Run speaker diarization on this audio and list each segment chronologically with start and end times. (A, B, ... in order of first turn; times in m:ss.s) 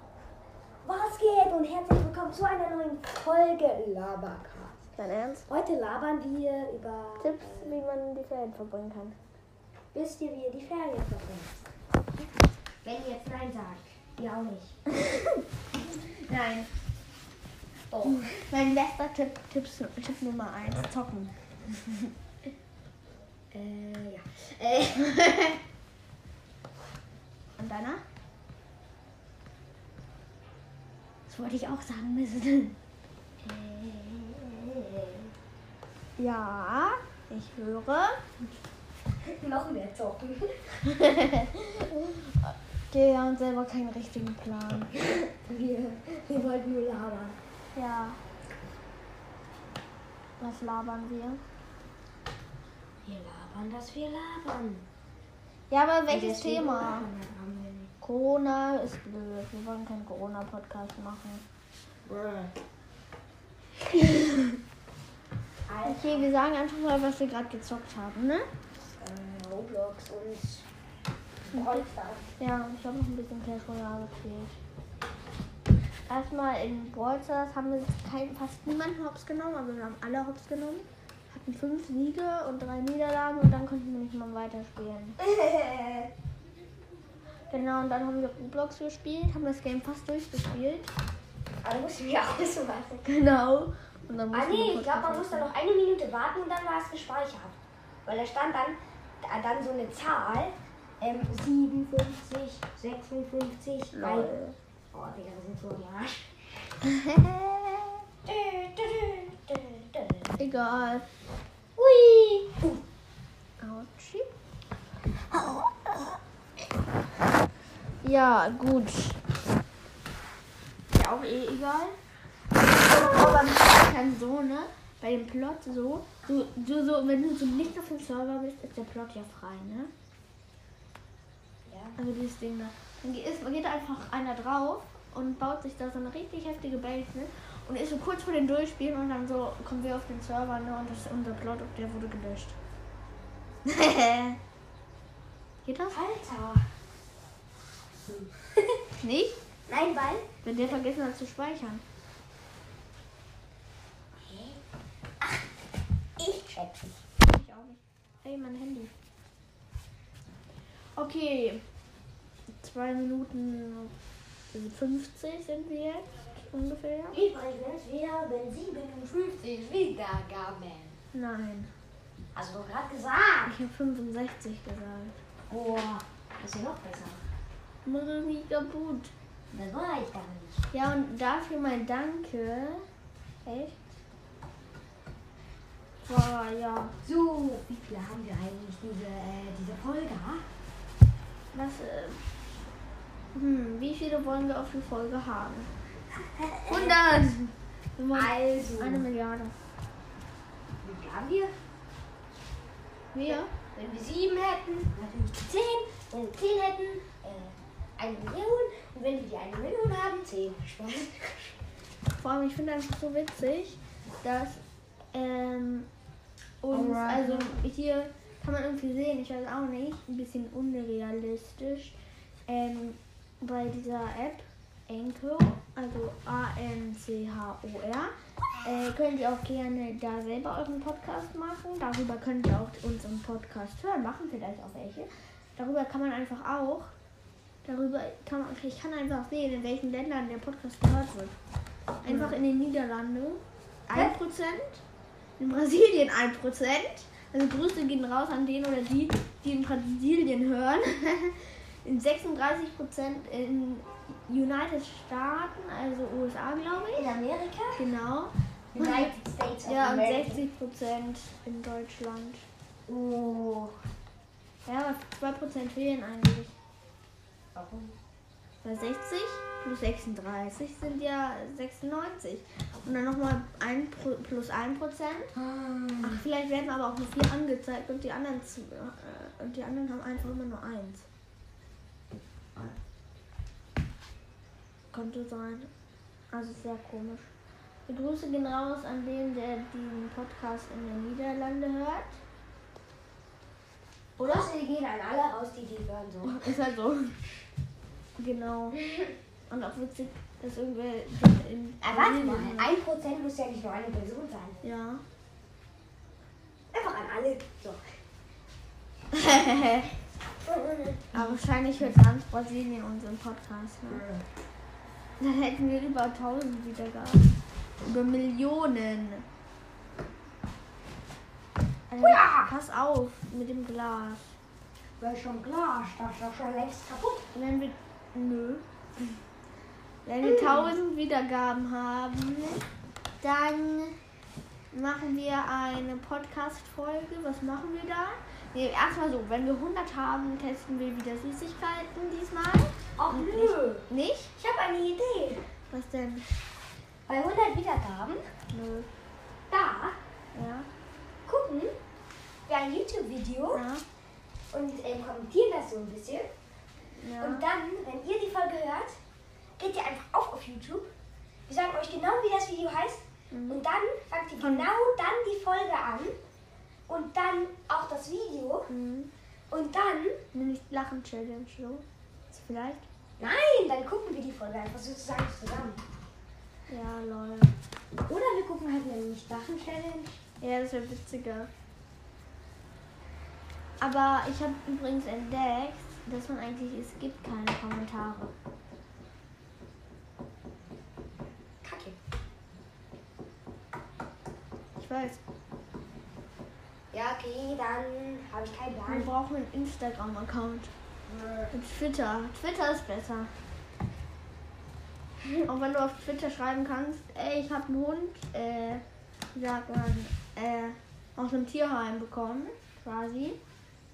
0:00.8-0:04.8 A
0:05.0-0:05.5 B
0:05.5-0:07.8 A
0:07.2-0:09.2 B
0:09.9-0:11.5 A
0:12.8-0:14.8 A
0:15.0-0:15.4 B
0:16.1-0:16.7 B
0:17.9-0:18.3 A
0:18.0-0:22.1 B
0:23.5-0:25.2 A
0:27.6-0:28.0 B
0:31.3-0:32.8 B
0:33.4-0:35.3 A
0:36.2-0:38.2 B
0:39.2-0:40.8 A
0:40.8-0:44.9 B
0:45.0-0:47.4 A
0:47.7-0:48.2 B
0:50.4-0:51.4 B
0:53.0-0:54.8 A
0:55.7-0:57.1 B
0:56.1-0:57.9 A
0:58.0-1:01.4 B
1:02.0-1:02.5 A
1:04.0-1:04.6 B
1:05.6-1:06.3 A
1:05.8-1:08.5 B
1:09.0-1:10.6 A
1:11.4-1:12.2 A
1:11.5-1:11.9 B
1:12.4-1:14.6 B
1:16.1-1:25.2 B
1:25.2-1:26.1 A
1:27.5-1:30.9 B
1:31.6-1:33.0 A
1:33.0-1:35.5 B
1:34.3-1:44.3 A
1:43.9-1:44.5 B
1:44.9-1:46.6 A
1:46.9-1:47.7 B
1:48.2-1:50.4 A
1:50.4-1:51.0 B
1:51.8-1:52.8 A
1:53.6-1:54.3 B
1:55.3-1:56.2 B
1:58.0-1:59.2 B
2:00.9-2:02.0 B
2:02.7-2:09.9 B
2:11.6-2:12.0 A
2:12.0-2:22.6 B
2:23.6-2:24.4 B
2:25.6-2:26.0 B
2:25.9-2:26.6 A
2:28.0-2:28.8 A
2:29.0-2:29.4 B
2:29.7-2:30.3 A
2:30.4-2:31.8 B
2:34.2-2:34.6 A
2:36.2-2:37.0 A
2:37.2-2:38.9 B
2:40.9-2:41.6 B
2:42.6-2:43.9 B
2:44.5-2:47.2 B
2:47.1-2:51.0 A
2:51.1-2:51.7 B
2:52.3-2:53.5 A
2:53.4-2:55.2 B
2:55.5-2:57.2 A
2:57.8-2:59.1 B
2:59.5-3:00.6 A
3:00.7-3:02.8 B
3:03.4-3:03.8 B
3:06.0-3:07.0 B
3:07.0-3:10.4 A
3:11.5-3:12.2 B
3:13.3-3:15.7 B
3:16.2-3:17.3 A
3:16.7-3:19.6 B
3:18.1-3:19.0 A
3:20.8-3:21.5 A
3:23.1-3:23.5 B
3:23.2-3:31.6 A
3:32.1-3:34.6 B
3:35.1-3:35.9 B
3:36.6-3:48.1 B
3:36.7-3:37.6 A
3:48.6-3:56.9 B
3:57.6-4:01.3 B
4:02.0-4:04.8 B
4:02.0-4:02.4 A
4:03.9-4:04.2 A
4:05.4-4:17.1 B
4:16.9-4:17.8 A
4:17.8-4:19.1 B
4:18.7-4:20.4 A
4:19.6-4:22.4 B
4:22.9-4:23.8 A
4:24.6-4:26.5 B
4:27.5-4:27.9 A
4:28.6-4:35.3 B
4:35.3-4:36.2 A
4:36.0-4:41.0 B
4:44.9-4:45.7 B
4:46.3-4:47.3 B
4:47.9-4:52.2 B
4:54.2-4:54.5 B
4:54.2-4:56.4 A
4:56.2-4:57.2 B
4:58.2-4:58.8 B
4:59.5-5:02.7 B
5:01.8-5:04.6 A
5:04.6-5:05.0 B
5:06.7-5:07.8 A
5:09.1-5:09.9 B
5:10.4-5:11.4 A
5:11.1-5:14.0 B
5:13.9-5:14.2 A
5:15.2-5:17.3 B
5:17.8-5:19.2 B
5:21.9-5:24.3 B
5:22.0-5:22.5 A
5:25.0-5:27.2 A
5:27.3-5:29.1 B
5:30.0-5:32.6 B
5:33.2-5:34.0 B
5:34.7-5:44.3 B
5:43.0-5:43.8 A
5:44.4-5:45.4 A
5:45.7-5:46.3 B
5:47.1-5:48.2 A
5:48.5-5:48.9 B
5:49.5-5:50.0 A
5:50.3-5:50.7 B
5:51.2-5:51.7 A
5:52.4-5:53.6 A
5:53.5-5:53.8 B
5:54.5-5:56.3 A
5:57.0-5:57.4 B
5:57.2-5:59.0 A
5:59.6-6:00.9 A
6:01.5-6:06.2 A
6:03.3-6:03.6 B
6:04.4-6:04.7 B
6:06.9-6:08.7 A
6:08.7-6:09.1 B
6:09.5-6:10.2 A
6:10.3-6:12.8 B
6:13.2-6:15.8 A
6:16.7-6:17.5 B
6:18.0-6:20.2 A
6:20.4-6:21.5 B
6:23.8-6:28.3 B
6:31.6-6:32.0 A
6:34.8-6:35.2 B
6:36.9-6:39.1 A
6:38.9-6:40.7 B
6:41.1-6:41.5 A
6:41.5-6:43.3 B
6:45.4-6:48.8 B
6:49.3-6:53.4 B